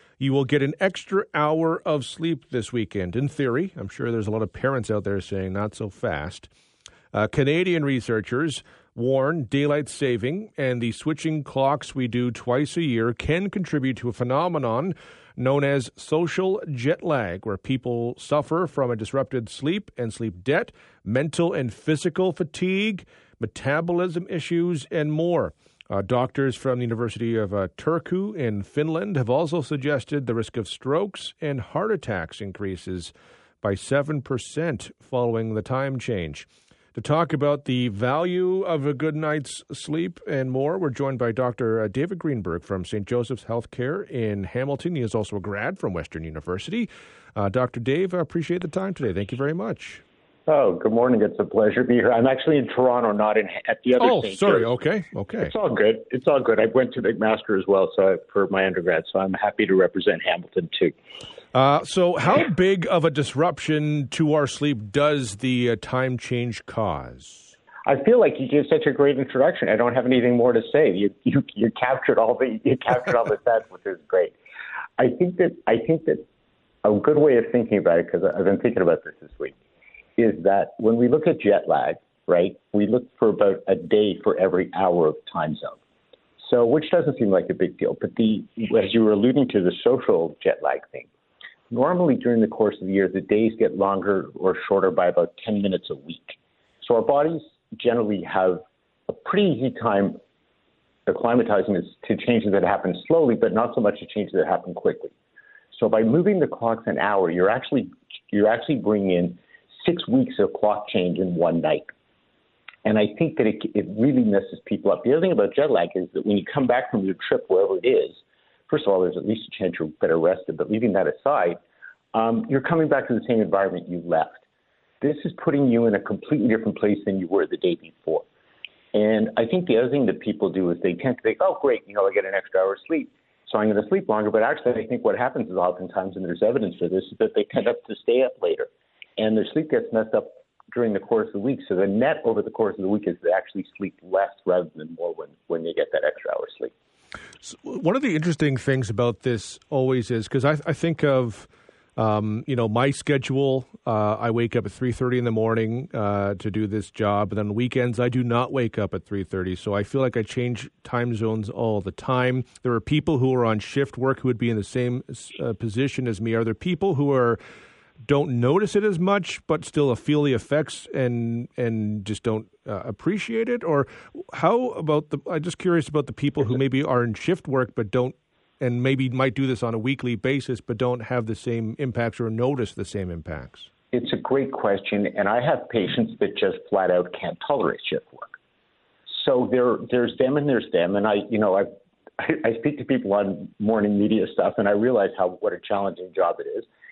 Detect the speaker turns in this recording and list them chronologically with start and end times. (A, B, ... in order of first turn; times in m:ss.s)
0:00.2-0:06.5 A
0:07.1-0:50.0 A
0:50.5-0:54.8 B
0:54.0-0:55.5 A
0:55.4-1:01.0 B
1:01.5-1:07.6 A
1:07.8-1:14.4 B
1:15.0-1:16.2 B
1:16.8-1:19.6 B
1:20.2-1:25.8 B
1:26.4-1:31.1 B
1:31.7-1:40.2 B
1:41.1-1:45.1 B
1:45.7-1:51.9 B
1:52.8-2:01.6 B
2:02.1-2:04.4 B
2:05.0-2:08.2 B
2:08.9-2:26.7 B
2:27.4-2:47.4 A
2:48.0-3:03.7 A
3:03.9-3:08.3 B
3:09.1-3:11.7 B
3:12.2-3:16.7 B